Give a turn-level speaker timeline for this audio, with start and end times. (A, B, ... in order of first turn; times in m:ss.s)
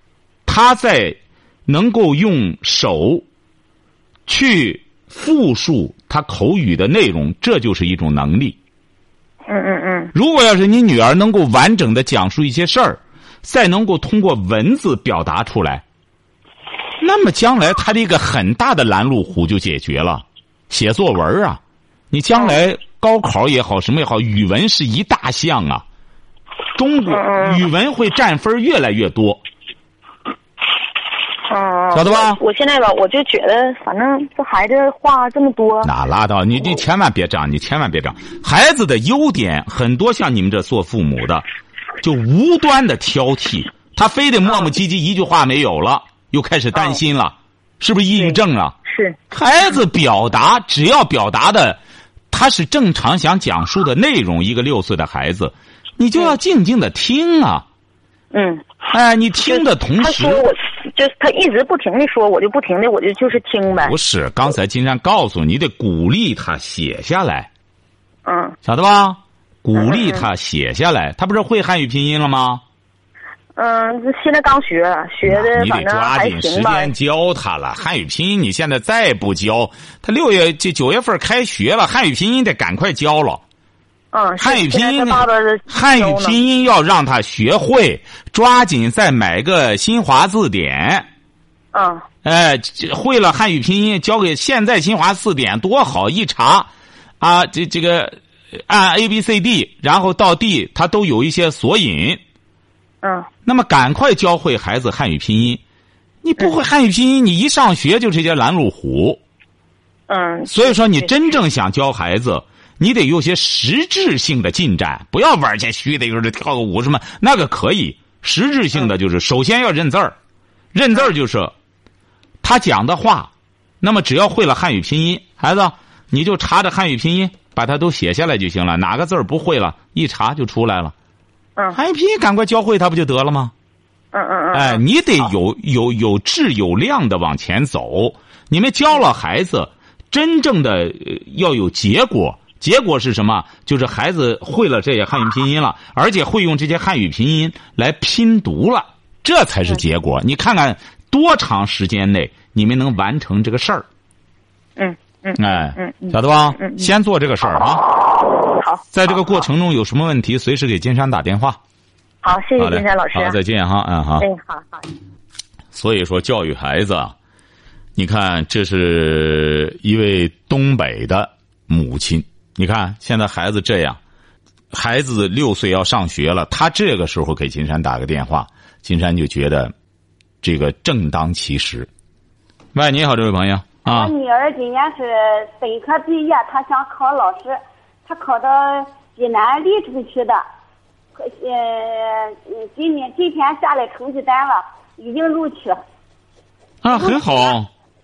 0:00.5-0:03.2 A
0:04.3-0:08.6 A
0:09.5-0:10.1 B
0:10.1-0:15.8 A
0:17.0-0:21.6 A
0:22.1-0:25.8 A
0:26.8-0:29.4 A
0:27.1-0:27.6 B
0:31.5-0:35.9 B
0:31.9-0:32.4 A
0:35.8-0:41.4 A
0:42.0-0:48.8 A
0:48.2-0:49.2 B
0:49.3-0:51.8 A
0:52.3-0:57.6 A
0:58.3-0:58.7 B
0:58.9-1:00.4 A
0:59.4-1:04.0 B
1:03.8-1:07.5 A
1:08.3-1:08.6 B
1:08.6-1:12.6 A
1:09.8-1:10.3 B
1:13.6-1:16.9 B
1:15.2-1:23.4 A
1:24.1-1:26.4 B
1:24.4-1:31.1 A
1:31.7-1:32.1 B
1:32.2-1:42.2 A
1:43.0-1:43.3 B
1:43.4-1:45.6 A
1:46.2-1:49.2 A
1:50.1-1:51.1 B
1:50.5-2:00.2 A
2:00.7-2:01.5 A
2:02.4-2:10.9 A
2:11.7-2:13.5 A
2:14.1-2:14.8 B
2:14.5-2:33.9 A
2:34.8-2:36.9 B
2:35.4-2:37.8 A
2:38.6-2:38.8 B
2:38.9-2:41.6 A
2:42.2-2:43.4 B
2:42.6-2:44.3 A
2:44.2-2:44.9 B
2:45.7-2:47.2 A
2:48.0-2:54.0 A
2:54.7-2:59.7 A
3:00.4-3:01.9 A
3:02.7-3:04.1 A
3:03.8-3:10.4 C
3:11.2-3:15.8 C
3:16.8-3:17.7 A
3:16.9-3:17.5 C